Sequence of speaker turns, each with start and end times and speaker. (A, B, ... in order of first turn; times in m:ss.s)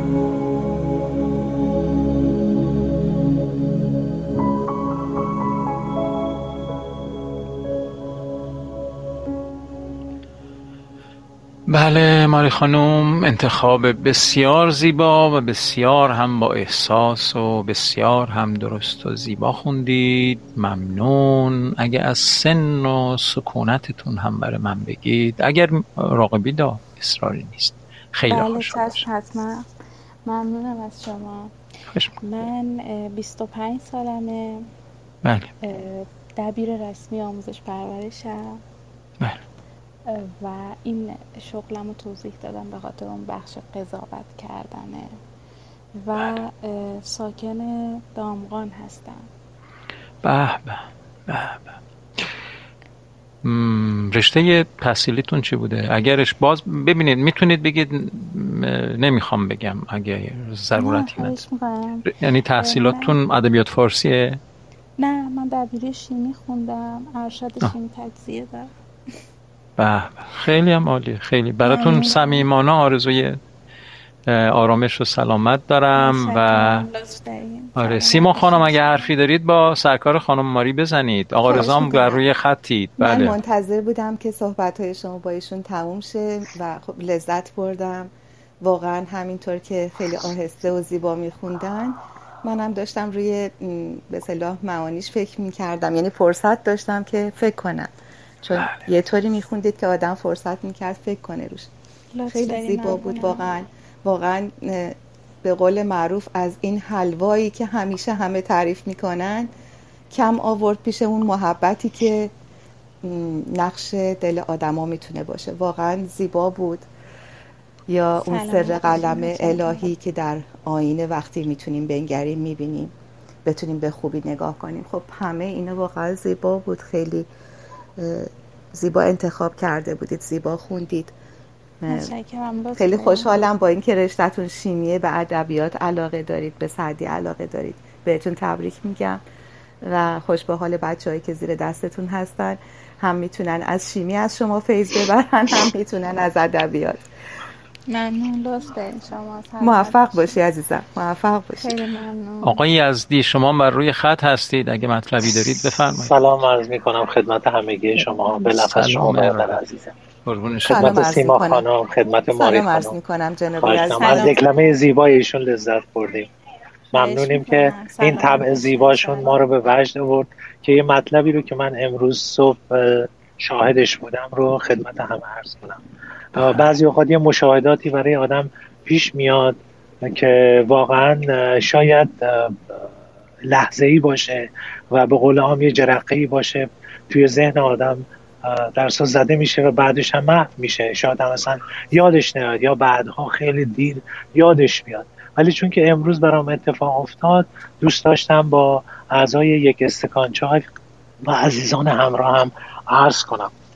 0:11.7-0:29.0 A
0:28.3-0:29.7 B
0:30.2-0:31.5 B
0:31.9-0:32.2 A
0:32.2-0:34.7 B
0:35.2-0:35.5 A
0:35.6-0:38.6 B
0:40.0-0:45.2 B
0:46.0-0:49.3 B
0:50.2-0:51.8 A
0:53.4-1:01.4 A
1:00.8-1:03.1 B
1:02.0-1:04.4 A
1:05.0-1:08.7 B
1:09.8-1:13.4 A
1:11.6-1:12.4 B
1:14.2-1:16.9 A
1:15.9-1:18.8 B
1:17.8-1:23.4 A
1:21.4-1:22.2 C
1:23.0-1:37.9 C
1:38.4-1:41.7 C
1:38.5-1:38.8 A
1:42.1-1:43.5 B
1:42.3-1:49.5 C
1:50.1-1:52.3 C
1:53.0-1:56.9 C
1:57.9-2:02.9 C
1:58.2-1:59.9 B
2:03.4-2:07.3 C
2:08.0-2:11.1 C
2:11.8-2:12.1 C
2:11.9-2:13.4 B
2:12.8-2:19.2 C
2:19.8-2:27.0 C
2:27.9-2:30.3 B
2:29.6-2:31.7 C
2:31.6-2:32.6 B
2:32.4-2:36.1 A
2:36.0-2:39.9 D
2:38.3-2:39.6 A
2:40.2-2:41.1 A
2:40.6-2:41.6 C
2:40.7-2:42.9 D
2:42.3-2:44.4 C
2:43.6-2:46.3 D
2:44.0-2:44.4 B
2:46.9-2:55.8 D
2:46.9-2:49.4 B
2:56.3-3:02.8 D
2:56.3-2:56.7 A
3:03.4-3:20.7 D
3:21.2-3:23.5 D